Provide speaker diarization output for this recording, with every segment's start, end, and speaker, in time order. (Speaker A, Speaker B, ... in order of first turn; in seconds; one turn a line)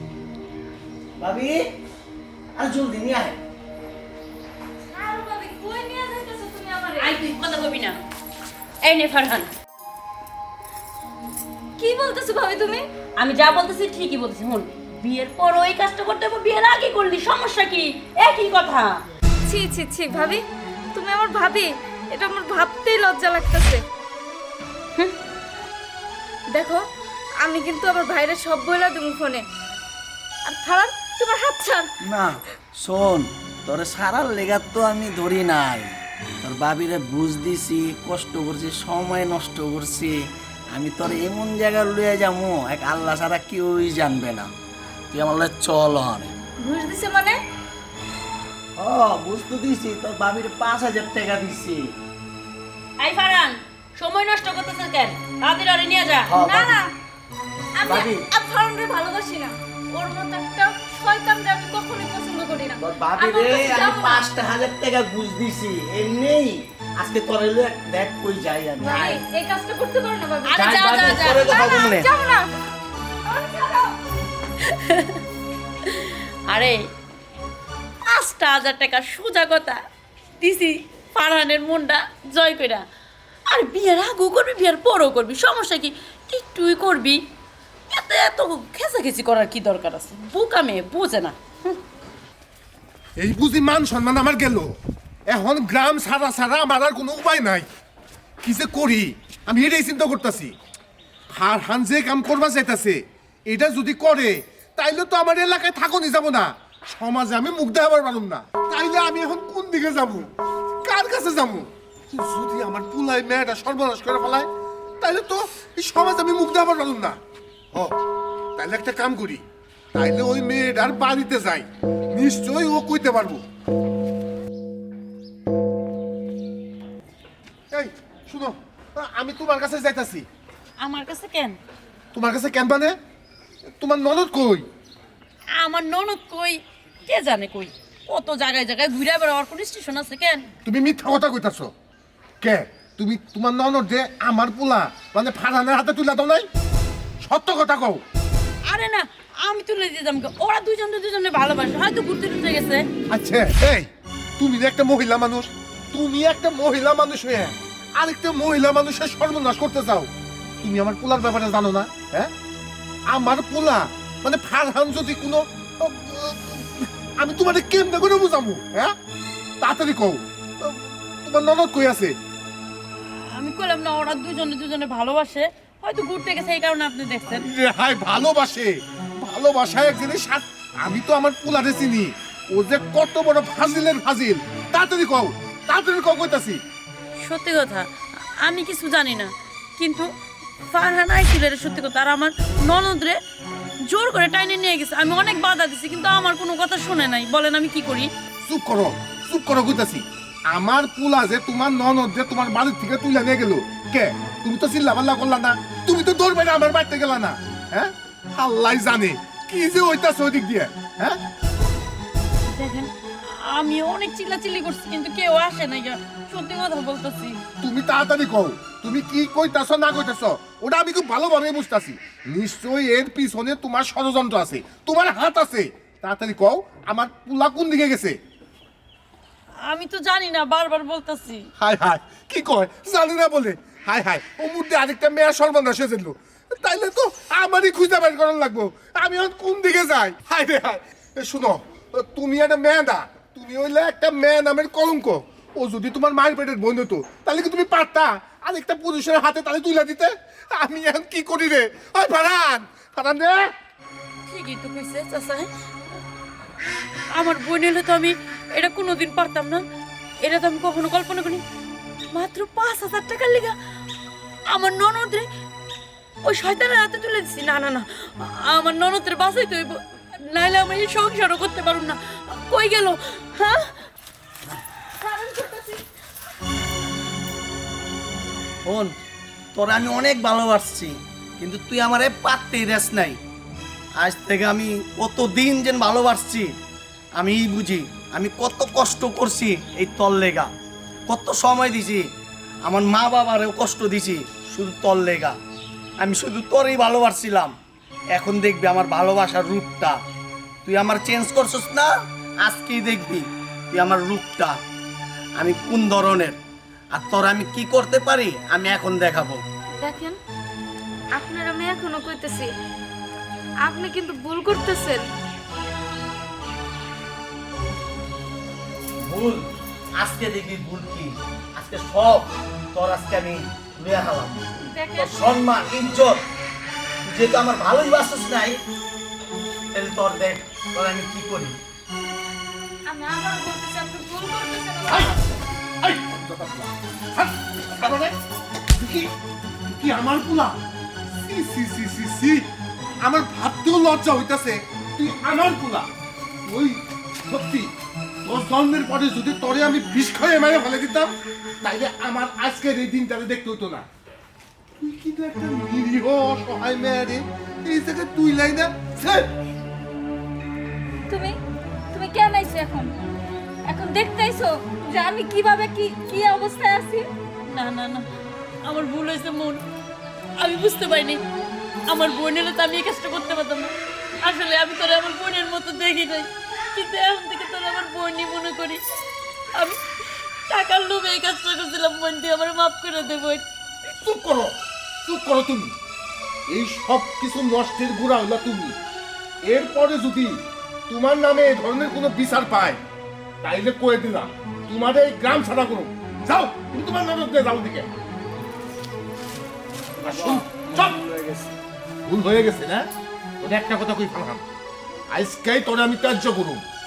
Speaker A: 1.2-1.6
Speaker A: 2.6-3.4
Speaker B: 4.9-7.2
Speaker C: 7.0-8.0
Speaker C: 8.8-9.5
Speaker B: 11.8-12.8
Speaker C: 13.2-19.0
Speaker B: 19.4-20.4
Speaker B: 20.9-23.8
Speaker B: 26.5-26.8
Speaker B: 27.4-29.4
Speaker B: 30.4-31.9
Speaker A: 32.0-40.2
Speaker A: 40.7-44.5
Speaker A: 45.1-46.3
Speaker B: 46.6-47.4
Speaker A: 48.8-51.9
Speaker C: 53.0-56.3
Speaker A: 56.2-56.8
Speaker B: 56.4-56.9
Speaker B: 57.8-64.3
Speaker A: 57.9-58.3
Speaker A: 62.8-69.2
Speaker B: 68.8-72.5
Speaker C: 70.4-71.5
Speaker A: 70.5-72.1
Speaker B: 73.2-73.9
Speaker C: 74.7-75.2
Speaker C: 75.8-76.8
Speaker C: 78.1-79.8
Speaker C: 80.4-82.8
Speaker C: 83.5-87.2
Speaker C: 87.9-91.8
Speaker D: 93.2-94.8
Speaker D: 95.3-97.7
Speaker D: 98.4-100.5
Speaker D: 101.3-110.3
Speaker D: 110.8-114.5
Speaker D: 115.0-117.2
Speaker D: 118.6-119.4
Speaker D: 119.9-123.4
Speaker D: 127.7-130.2
Speaker C: 130.8-131.6
Speaker D: 132.1-133.0
Speaker D: 133.8-134.7
Speaker C: 135.5-140.5
Speaker D: 140.6-141.7
Speaker D: 142.4-146.4
Speaker D: 147.2-148.0
Speaker C: 148.6-152.8
Speaker D: 153.1-160.1
Speaker D: 160.6-162.3
Speaker D: 163.1-168.9
Speaker D: 169.6-172.2
Speaker C: 173.3-177.4
Speaker D: 177.3-186.6
Speaker C: 187.2-187.9
Speaker C: 188.4-190.1
Speaker C: 190.7-193.2
Speaker C: 193.9-198.1
Speaker D: 198.4-211.2
Speaker C: 212.5-217.4
Speaker D: 217.6-228.2
Speaker C: 229.7-231.4
Speaker D: 231.6-253.5
Speaker C: 254.3-255.5
Speaker C: 257.1-259.6
Speaker C: 260.2-261.4
Speaker C: 262.1-263.5
Speaker C: 264.5-265.3
Speaker C: 266.2-273.8
Speaker B: 275.0-275.8
Speaker A: 278.6-278.9
Speaker A: 279.5-283.2
Speaker A: 284.0-286.5
Speaker A: 287.2-290.5
Speaker A: 291.1-292.1
Speaker A: 292.6-295.4
Speaker A: 296.0-297.5
Speaker A: 298.1-300.0
Speaker A: 300.6-301.9
Speaker A: 302.4-304.6
Speaker A: 305.4-306.4
Speaker A: 306.9-309.4
Speaker B: 309.8-310.2
Speaker B: 311.1-312.5
Speaker B: 313.6-315.0
Speaker A: 319.0-326.2
Speaker B: 324.7-325.2
Speaker A: 327.0-328.6
Speaker A: 329.7-331.6
Speaker B: 332.9-335.1
Speaker D: 334.9-335.1
Speaker D: 335.8-338.2
Speaker D: 338.7-339.1
Speaker D: 339.6-340.6
Speaker D: 341.2-342.5
Speaker D: 343.0-345.9
Speaker D: 346.4-347.7
Speaker D: 348.2-353.9
Speaker D: 354.8-359.3
Speaker B: 361.1-361.4
Speaker B: 361.9-363.1
Speaker B: 363.7-367.1
Speaker C: 367.4-368.1
Speaker C: 368.6-369.6
Speaker C: 370.4-371.2
Speaker C: 371.9-378.8
Speaker C: 379.5-379.8
Speaker C: 380.5-383.4
Speaker D: 384.0-385.7
Speaker D: 386.5-388.8
Speaker D: 389.4-392.8
Speaker D: 393.4-397.9
Speaker D: 400.0-401.0
Speaker A: 400.0-401.4
Speaker D: 402.0-402.9
Speaker D: 403.4-404.4
Speaker D: 405.1-406.6